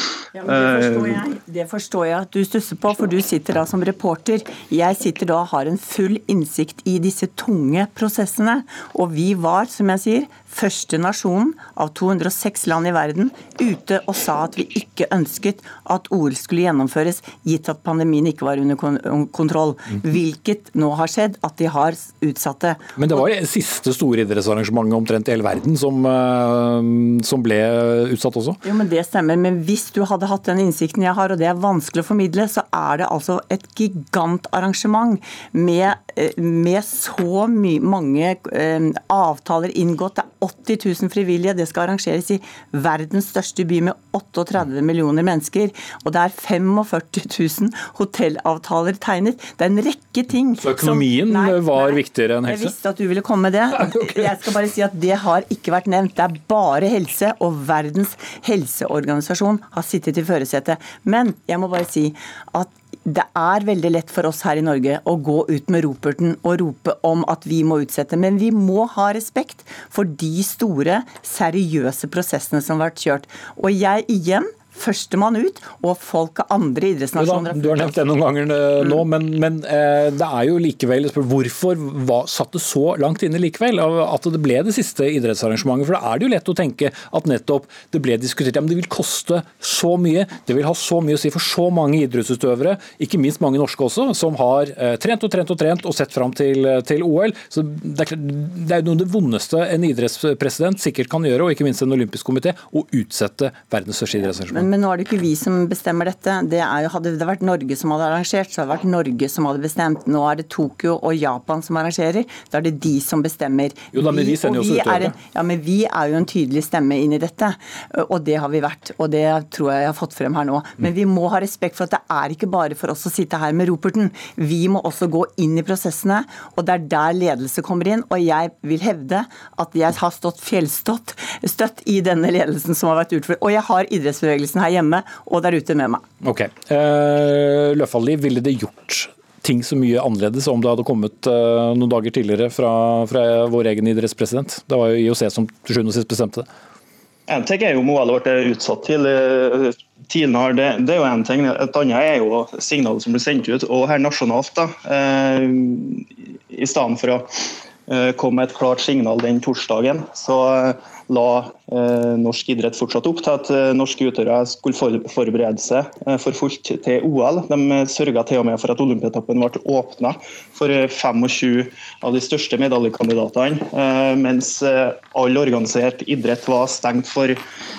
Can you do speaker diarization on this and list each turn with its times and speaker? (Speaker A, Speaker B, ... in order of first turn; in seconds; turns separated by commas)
Speaker A: 0.3-23.2, Speaker B: 0.5-1.2, Speaker C: 23.0-28.6, Speaker A: 28.6-78.0, Speaker C: 50.6-52.7, Speaker C: 53.8-54.2, Speaker C: 77.2-104.7, Speaker A: 104.5-136.0, Speaker C: 113.9-115.2, Speaker C: 136.2-146.5, Speaker B: 147.3-157.3, Speaker B: 157.9-177.4